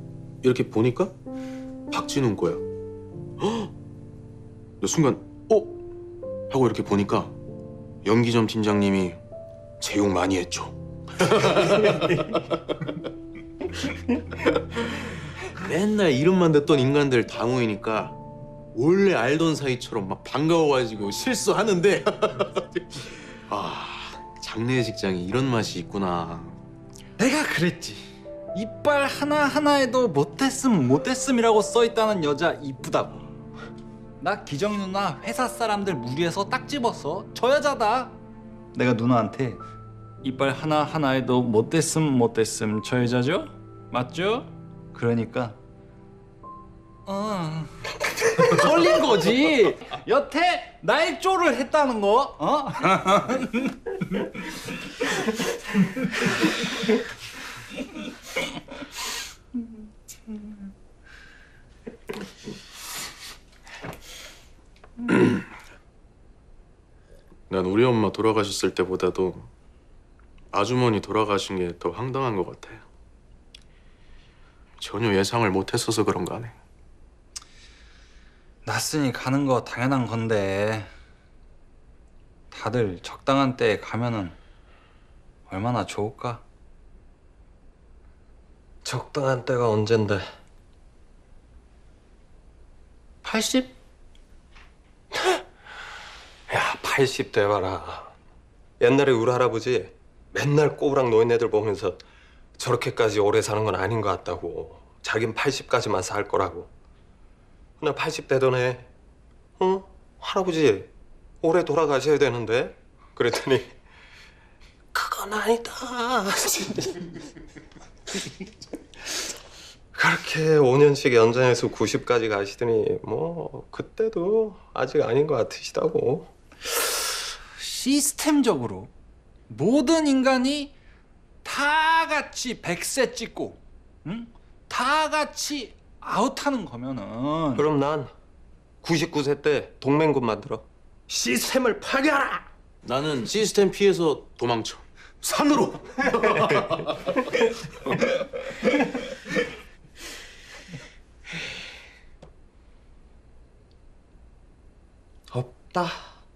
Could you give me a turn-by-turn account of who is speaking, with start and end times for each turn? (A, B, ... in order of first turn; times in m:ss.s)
0:00.4-0:01.1 A
0:01.9-0:02.6 A
0:03.4-0:03.7 A
0:04.8-0:05.7 A
0:06.5-0:07.3 A
0:08.0-0:09.2 A
0:09.8-0:12.4 A
0:15.4-0:18.2 A
0:18.7-0:26.6 A
0:27.2-0:33.3 B
0:34.2-0:38.2 B
0:38.7-0:39.6 B
0:40.2-0:45.6 B
0:47.0-0:54.3 B
1:07.5-1:09.5 A
1:10.5-1:12.8 A
1:14.8-1:16.5 A
1:18.6-1:20.9 B
1:22.5-1:24.4 B
1:25.5-1:26.4 B
1:28.8-1:30.2 C
1:33.2-1:33.7 B
1:36.5-1:38.1 C
1:38.8-1:42.0 C
1:42.6-1:46.7 C
1:47.8-1:48.9 C
1:49.6-1:50.9 C
1:51.4-1:53.7 C
1:54.9-1:57.1 C
1:59.9-2:06.3 C
2:07.6-2:08.9 B
2:09.5-2:10.7 B
2:11.4-2:17.7 B
2:17.6-2:18.1 C
2:18.8-2:22.4 C
2:22.8-2:27.3 A
2:35.3-2:36.1 C